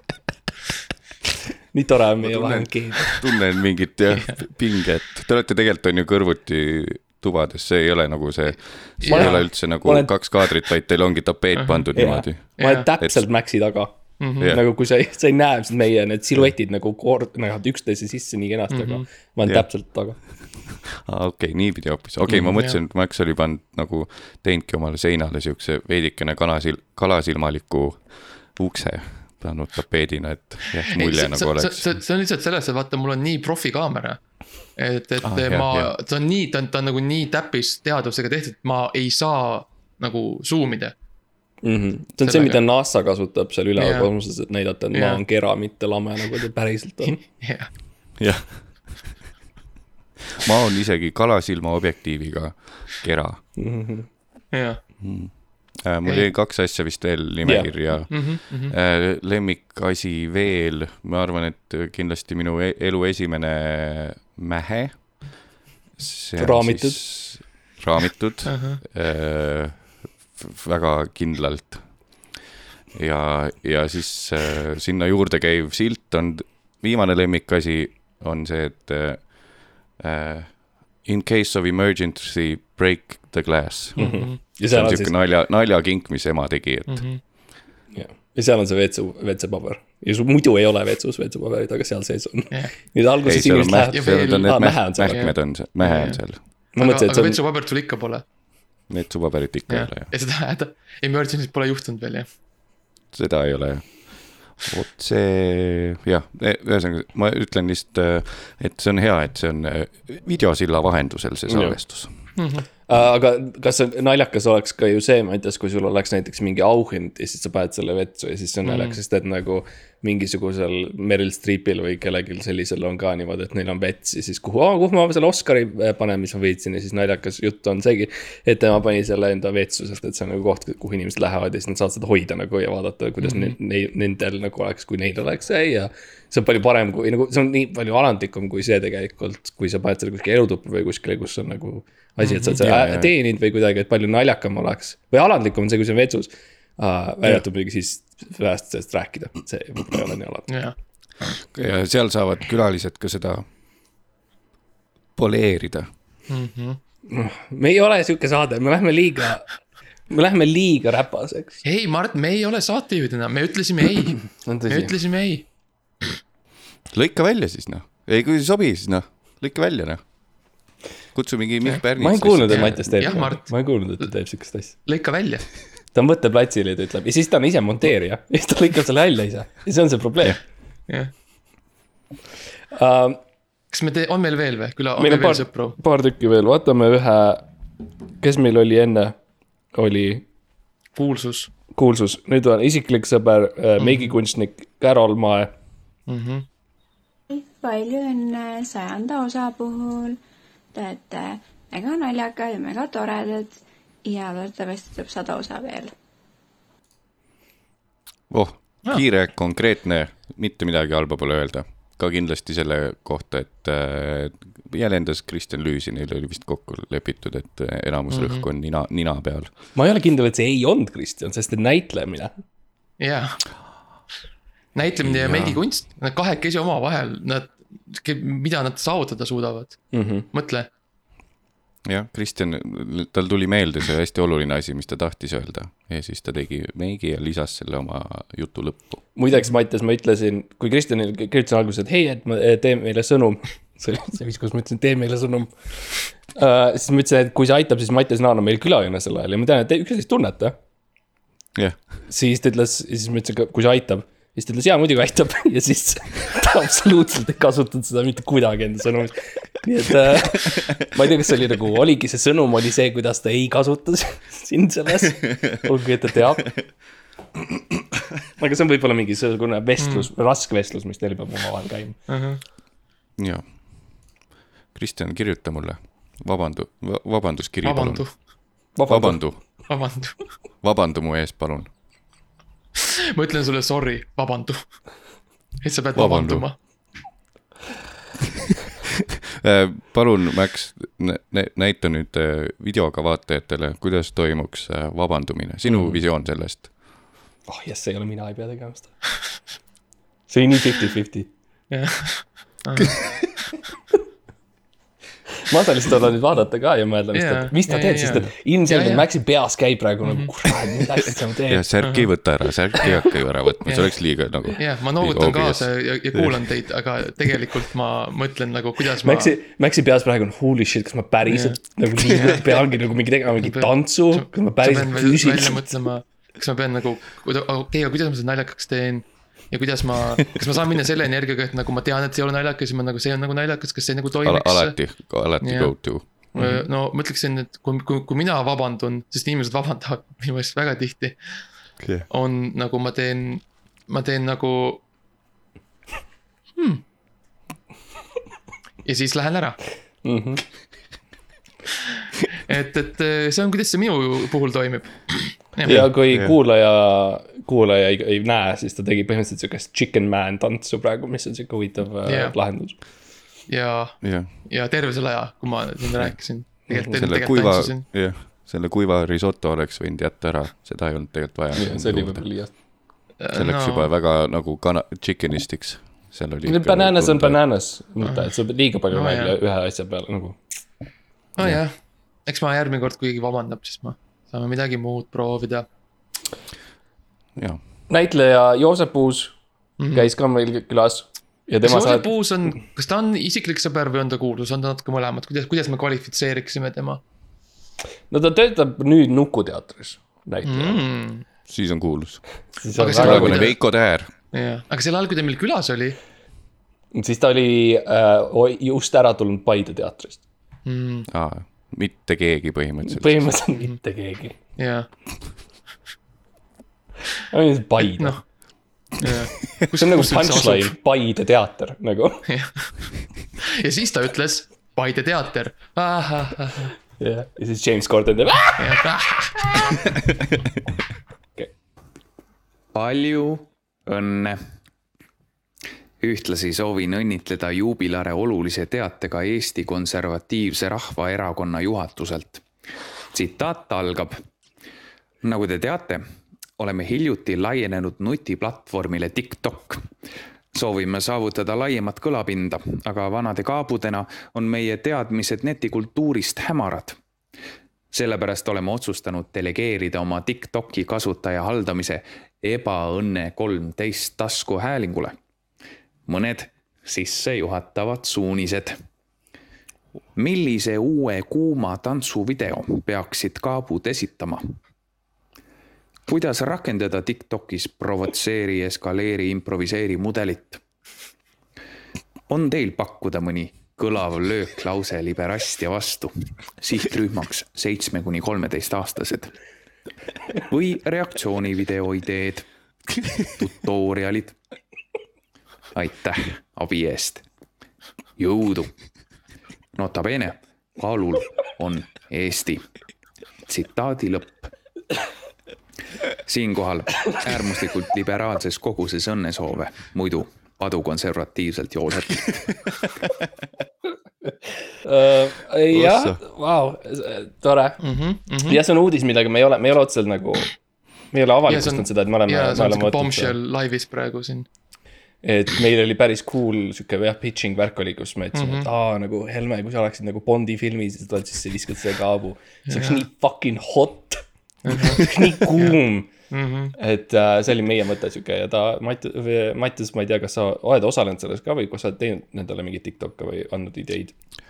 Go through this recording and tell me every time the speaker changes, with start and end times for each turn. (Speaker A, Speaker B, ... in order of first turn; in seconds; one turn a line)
Speaker A: 1.7-3.1
Speaker B: 2.2-13.2
Speaker C: 9.0-9.5
Speaker A: 9.0-10.2
Speaker C: 11.5-11.9
Speaker A: 11.9-20.2
Speaker C: 12.6-12.9
Speaker C: 14.2-14.5
Speaker B: 14.4-14.6
Speaker C: 18.7-19.0
Speaker B: 19.4-31.9
Speaker C: 22.3-22.8
Speaker C: 30.8-40.9
Speaker B: 35.2-35.9
Speaker A: 41.6-47.2
Speaker C: 42.2-42.6
Speaker C: 43.8-44.1
Speaker C: 44.9-45.2
Speaker C: 47.0-47.7
Speaker B: 48.2-49.1
Speaker B: 50.4-53.4
Speaker A: 53.6-54.1
Speaker C: 54.5-54.8
Speaker B: 55.0-72.4
Speaker C: 56.0-56.3
Speaker A: 57.4-57.7
Speaker C: 58.1-58.7
Speaker A: 66.4-67.0
Speaker C: 68.4-68.8
Speaker B: 72.9-87.1
Speaker C: 84.0-84.4
Speaker A: 84.0-85.1
Speaker C: 86.9-87.2
Speaker A: 87.9-95.2
Speaker B: 93.2-96.4
Speaker C: 93.6-98.2
Speaker A: 96.8-97.4
Speaker B: 98.9-100.1
Speaker C: 99.7-102.3
Speaker B: 103.1-112.1
Speaker A: 111.5-111.8
Speaker C: 112.3-112.7
Speaker A: 112.9-150.5
Speaker C: 118.6-119.0
Speaker C: 142.2-142.7
Speaker B: 142.6-143.1
Speaker C: 150.5-151.3
Speaker B: 151.5-153.4
Speaker B: 155.2-155.9
Speaker C: 156.3-156.8
Speaker A: 157.1-159.5
Speaker A: 160.1-161.6
Speaker C: 161.6-165.5
Speaker A: 164.4-164.9
Speaker B: 166.9-170.5
Speaker B: 171.1-173.2
Speaker A: 172.0-174.8
Speaker C: 172.5-174.1
Speaker C: 174.8-175.4
Speaker A: 175.9-180.4
Speaker A: 182.7-183.2
Speaker C: 183.7-185.8
Speaker A: 185.0-187.5
Speaker A: 188.2-189.2
Speaker A: 189.7-190.2
Speaker C: 190.9-191.5
Speaker A: 191.8-195.5
Speaker C: 193.8-194.1
Speaker C: 196.1-196.4
Speaker D: 197.3-200.2
Speaker D: 200.7-205.9
Speaker B: 208.3-219.5
Speaker C: 218.1-218.4
Speaker A: 219.7-222.4
Speaker C: 223.0-223.5
Speaker C: 224.7-230.7
Speaker B: 225.0-225.6
Speaker A: 229.9-230.2
Speaker B: 231.8-239.1
Speaker A: 239.2-250.6
Speaker A: 252.1-266.5
Speaker A: 268.4-272.0
Speaker C: 269.8-270.1
Speaker C: 272.1-272.4
Speaker B: 273.2-274.2
Speaker B: 274.7-278.2
Speaker C: 277.6-278.2
Speaker A: 278.7-279.2
Speaker B: 278.8-279.6
Speaker C: 279.7-280.4
Speaker B: 280.6-281.7
Speaker C: 283.1-284.6
Speaker C: 285.6-286.5
Speaker B: 285.9-286.5
Speaker B: 289.4-296.7
Speaker A: 297.5-298.9
Speaker A: 300.3-301.3
Speaker C: 301.7-303.0
Speaker A: 305.4-311.6
Speaker C: 307.1-309.1
Speaker C: 310.0-310.3
Speaker B: 311.5-316.5
Speaker C: 312.8-313.1
Speaker C: 313.6-313.9
Speaker C: 314.6-319.3
Speaker A: 319.0-325.7
Speaker C: 321.3-321.6
Speaker C: 323.4-341.2
Speaker B: 334.2-336.6
Speaker B: 341.8-342.1
Speaker C: 342.1-344.8
Speaker C: 346.6-346.8
Speaker C: 348.8-349.6
Speaker A: 350.0-350.4
Speaker C: 352.5-355.9
Speaker A: 355.6-362.8
Speaker B: 355.7-356.3
Speaker C: 362.0-362.8
Speaker C: 363.5-367.9
Speaker B: 364.0-364.3
Speaker B: 365.9-372.3
Speaker A: 371.6-372.5
Speaker C: 373.2-373.9
Speaker B: 373.3-377.4
Speaker A: 376.4-380.4
Speaker C: 378.0-378.3
Speaker C: 378.9-379.3
Speaker C: 381.4-381.7
Speaker C: 382.2-385.6
Speaker A: 387.9-389.3
Speaker C: 389.8-390.1
Speaker A: 389.9-392.1
Speaker C: 391.6-397.0
Speaker A: 398.1-400.8
Speaker C: 400.4-401.2
Speaker B: 401.5-402.2
Speaker A: 402.6-403.5
Speaker C: 402.8-406.0
Speaker B: 403.0-404.1
Speaker A: 406.9-410.2
Speaker C: 410.6-411.1
Speaker B: 411.1-413.3
Speaker A: 412.9-414.4
Speaker C: 414.6-414.9
Speaker A: 417.3-418.2
Speaker C: 418.9-420.7
Speaker A: 419.7-422.2
Speaker C: 422.3-423.0
Speaker C: 423.5-426.7
Speaker A: 427.0-428.7
Speaker C: 428.6-429.6
Speaker E: 432.7-434.4
Speaker E: 436.0-442.4
Speaker E: 443.1-444.2
Speaker E: 445.2-446.0
Speaker E: 446.6-449.9
Speaker E: 450.5-457.0
Speaker E: 457.9-465.1
Speaker E: 466.1-468.8
Speaker E: 470.1-474.5
Speaker E: 476.1-480.6
Speaker E: 482.3-489.3
Speaker E: 490.5-492.4
Speaker E: 493.3-494.3
Speaker E: 495.7-497.2
Speaker E: 498.2-498.7
Speaker E: 499.8-502.6
Speaker E: 503.5-504.5
Speaker E: 506.2-512.4
Speaker A: 514.8-517.8
Speaker B: 515.7-516.2
Speaker C: 517.8-518.6
Speaker A: 518.5-520.5
Speaker A: 521.1-523.3
Speaker C: 521.5-524.5
Speaker A: 525.2-536.1
Speaker C: 528.3-528.7
Speaker C: 532.7-533.0
Speaker C: 534.6-536.7
Speaker A: 536.8-544.1